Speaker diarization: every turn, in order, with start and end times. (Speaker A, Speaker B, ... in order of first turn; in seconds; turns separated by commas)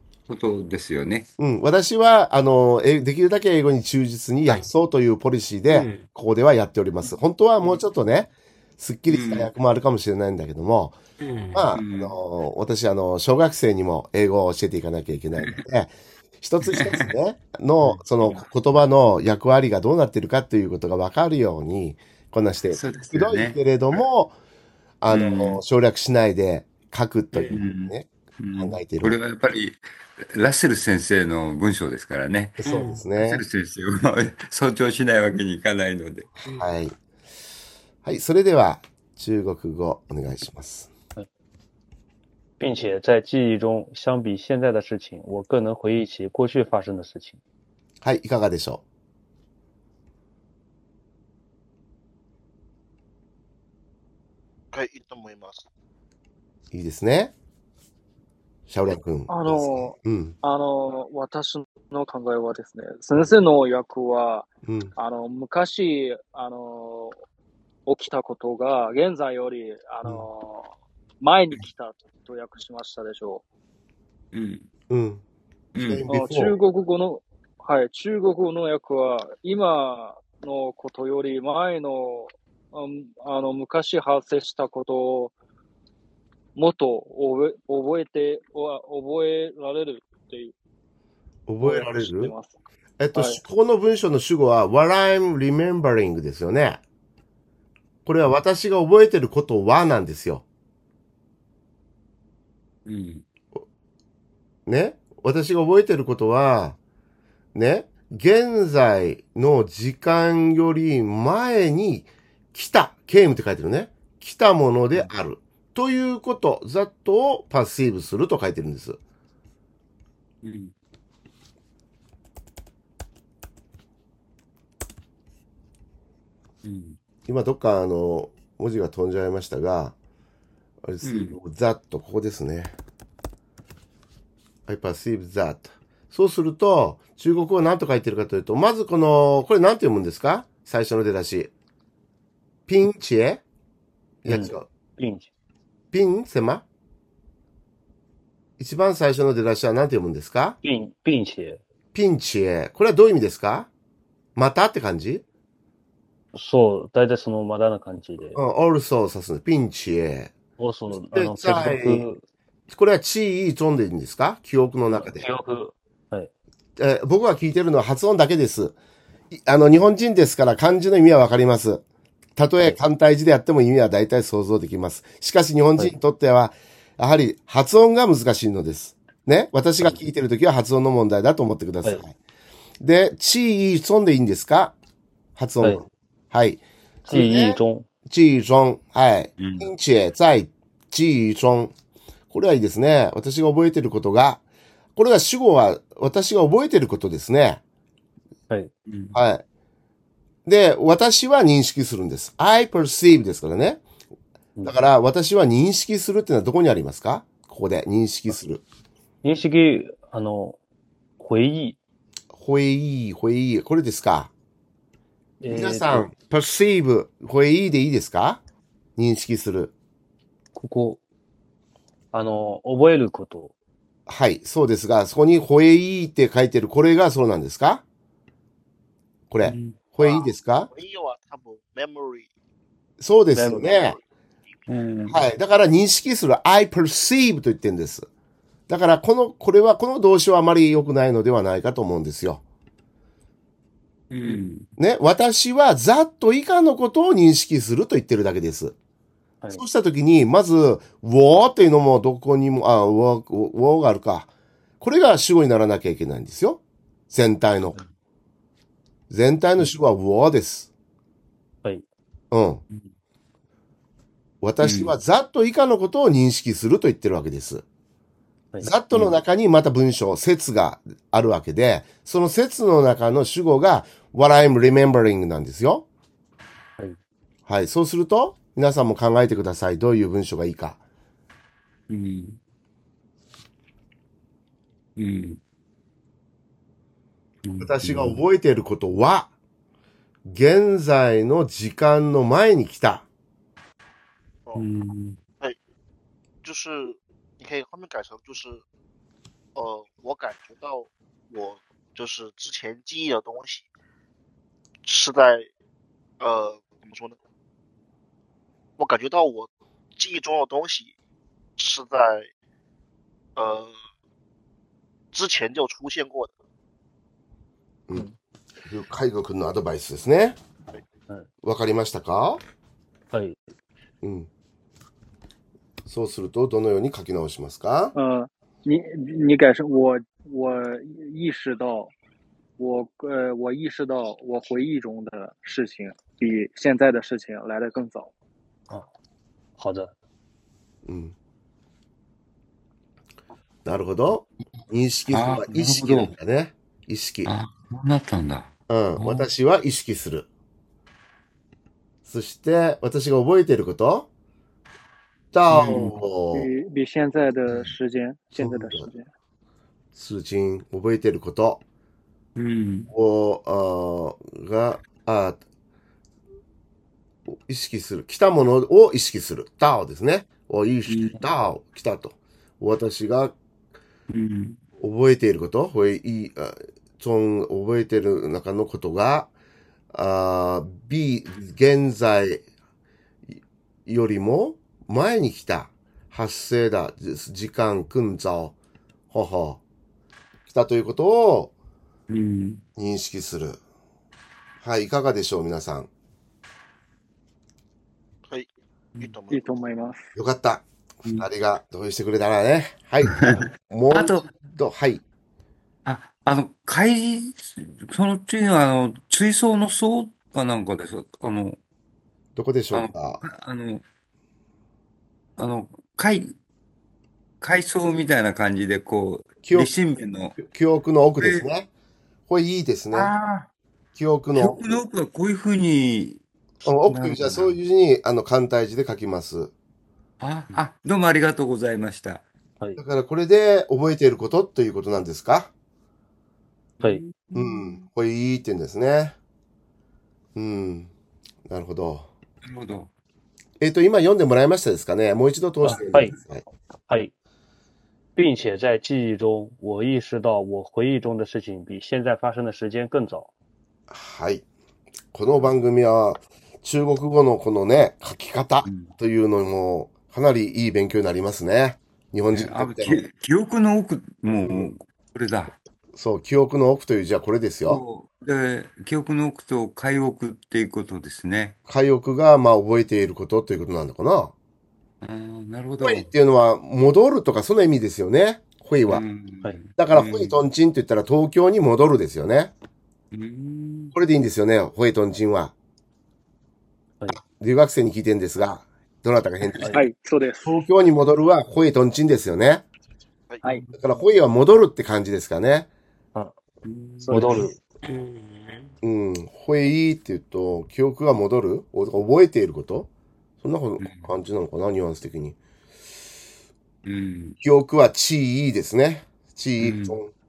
Speaker A: 0.3-1.3, Speaker B: 1.4-11.0, Speaker C: 5.7-6.0, Speaker A: 9.1-9.5, Speaker C: 11.2-11.7, Speaker B: 11.5-24.4, Speaker A: 11.7-12.2, Speaker A: 16.6-17.1, Speaker A: 22.7-23.6, Speaker B: 25.0-29.2, Speaker A: 25.1-25.6, Speaker A: 27.5-32.6, Speaker B: 32.6-33.4, Speaker C: 32.6-33.0, Speaker A: 33.1-36.3, Speaker B: 36.5-37.0, Speaker B: 38.0-40.9, Speaker D: 42.6-47.4, Speaker B: 48.0-48.8, Speaker E: 54.7-55.6, Speaker B: 56.7-57.3, Speaker B: 58.7-60.4, Speaker F: 59.3-67.2, Speaker B: 64.7-64.9, Speaker F: 67.9-73.4, Speaker A: 74.3-74.7, Speaker B: 74.9-75.2, Speaker A: 75.8-76.0, Speaker B: 75.8-76.5, Speaker F: 76.1-85.3, Speaker F: 86.5-90.5, Speaker B: 91.5-92.3, Speaker F: 91.6-92.6, Speaker B: 93.0-96.8, Speaker F: 93.1-93.4, Speaker B: 98.0-100.4, Speaker A: 102.9-103.2, Speaker B: 104.7-106.8, Speaker B: 107.5-119.0, Speaker A: 120.4-120.7, Speaker A: 126.6-127.0, Speaker B: 127.2-129.9, Speaker B: 130.8-132.8, Speaker A: 131.0-131.4, Speaker B: 134.7-141.5, Speaker B: 142.7-143.4, Speaker B: 144.2-144.7, Speaker D: 144.3-145.3, Speaker B: 145.9-146.6, Speaker B: 148.6-150.6, Speaker D: 150.6-151.6, Speaker B: 151.9-153.7, Speaker B: 154.4-155.2, Speaker D: 156.3-158.4, Speaker B: 158.3-160.3, Speaker D: 160.6-162.2, Speaker B: 161.0-162.1, Speaker B: 162.7-165.2, Speaker D: 164.9-166.3, Speaker B: 166.8-168.8, Speaker B: 169.3-171.8, Speaker B: 172.4-182.1, Speaker B: 182.8-184.8, Speaker B: 185.4-191.7, Speaker D: 187.1-187.9, Speaker A: 189.4-189.7, Speaker B: 192.3-194.4, Speaker B: 194.9-197.6, Speaker A: 198.9-199.2, Speaker B: 199.1-199.4, Speaker B: 200.4-203.8, Speaker B: 204.6-208.6, Speaker D: 209.2-210.6, Speaker D: 211.2-211.8, Speaker B: 212.3-214.3, Speaker D: 215.4-216.1, Speaker B: 215.5-218.4, Speaker B: 219.0-219.7, Speaker D: 220.6-221.0, Speaker D: 222.1-223.5, Speaker B: 224.1-227.8, Speaker B: 229.3-230.7, Speaker A: 229.4-229.8, Speaker E: 230.0-232.3, Speaker B: 233.0-234.0, Speaker D: 233.3-233.8, Speaker E: 233.7-234.0, Speaker A: 234.7-235.2, Speaker B: 235.1-238.1, Speaker B: 238.7-242.4, Speaker A: 244.1-244.7, Speaker B: 244.8-248.8, Speaker B: 249.5-254.3, Speaker B: 254.8-257.8, Speaker B: 259.1-260.7, Speaker B: 262.3-262.6, Speaker B: 264.4-267.6, Speaker A: 264.6-264.9, Speaker B: 268.6-275.9, Speaker B: 277.5-280.8, Speaker A: 281.9-282.4, Speaker A: 285.0-285.4, Speaker A: 287.4-288.2, Speaker B: 287.6-289.3, Speaker B: 290.2-293.1, Speaker A: 294.6-295.2, Speaker E: 296.4-298.6, Speaker E: 299.6-303.7, Speaker E: 304.9-305.5, Speaker E: 306.2-307.2, Speaker E: 308.8-310.9, Speaker E: 311.6-312.3, Speaker E: 313.4-313.7, Speaker E: 315.1-316.3, Speaker B: 318.6-320.4, Speaker B: 321.4-322.4, Speaker D: 323.1-323.4, Speaker B: 324.0-324.3, Speaker B: 325.9-327.9, Speaker F: 327.9-331.9, Speaker F: 332.6-338.1, Speaker D: 339.6-339.9, Speaker B: 340.9-341.1, Speaker B: 343.6-347.3, Speaker A: 345.1-346.1, Speaker A: 347.2-349.3, Speaker B: 348.7-350.3, Speaker B: 352.1-354.1, Speaker B: 355.3-356.5, Speaker A: 355.5-355.9, Speaker F: 356.3-359.1, Speaker B: 358.4-358.9, Speaker B: 359.9-361.6, Speaker A: 362.4-362.9, Speaker B: 362.9-365.4, Speaker B: 367.3-373.4, Speaker A: 370.9-371.2, Speaker A: 374.1-374.6, Speaker B: 374.8-379.3, Speaker B: 379.9-382.4, Speaker B: 383.3-388.5, Speaker B: 389.1-389.6, Speaker B: 390.5-391.5, Speaker A: 392.1-392.6, Speaker B: 392.8-393.6, Speaker B: 394.6-395.9, Speaker E: 398.3-399.4, Speaker F: 399.3-400.1, Speaker B: 400.1-405.0, Speaker A: 403.1-404.3, Speaker A: 405.9-411.6, Speaker B: 412.4-413.2, Speaker A: 412.7-413.8, Speaker A: 415.4-416.4, Speaker A: 417.4-420.4, Speaker B: 419.4-419.7, Speaker B: 420.4-421.7, Speaker A: 421.2-421.4, Speaker B: 422.3-423.1, Speaker A: 422.9-423.5, Speaker B: 423.9-424.8, Speaker A: 424.4-427.6, Speaker B: 426.6-429.5, Speaker A: 430.2-432.2, Speaker B: 432.8-435.5, Speaker A: 436.8-437.8, Speaker B: 437.3-439.1, Speaker B: 440.4-440.9, Speaker B: 441.5-442.1, Speaker A: 442.4-442.9, Speaker B: 443.6-446.4, Speaker D: 445.6-446.1, Speaker D: 448.1-453.3, Speaker B: 453.9-454.4, Speaker B: 455.1-463.0, Speaker A: 458.6-458.9, Speaker A: 462.3-465.6, Speaker B: 465.9-467.8, Speaker A: 467.6-471.6, Speaker B: 471.7-474.3, Speaker A: 475.0-476.1, Speaker B: 475.8-479.0, Speaker A: 478.9-480.4, Speaker B: 479.8-482.5, Speaker A: 483.1-483.9, Speaker B: 483.9-485.5, Speaker B: 487.2-489.8, Speaker F: 489.7-490.6, Speaker B: 490.4-492.6, Speaker B: 493.7-495.7, Speaker A: 496.6-497.4, Speaker F: 497.0-497.5, Speaker D: 497.1-497.6, Speaker C: 497.8-498.7, Speaker B: 498.8-502.9, Speaker B: 503.4-505.4, Speaker A: 503.8-504.1, Speaker A: 506.9-507.4, Speaker B: 507.4-510.1, Speaker A: 509.6-510.0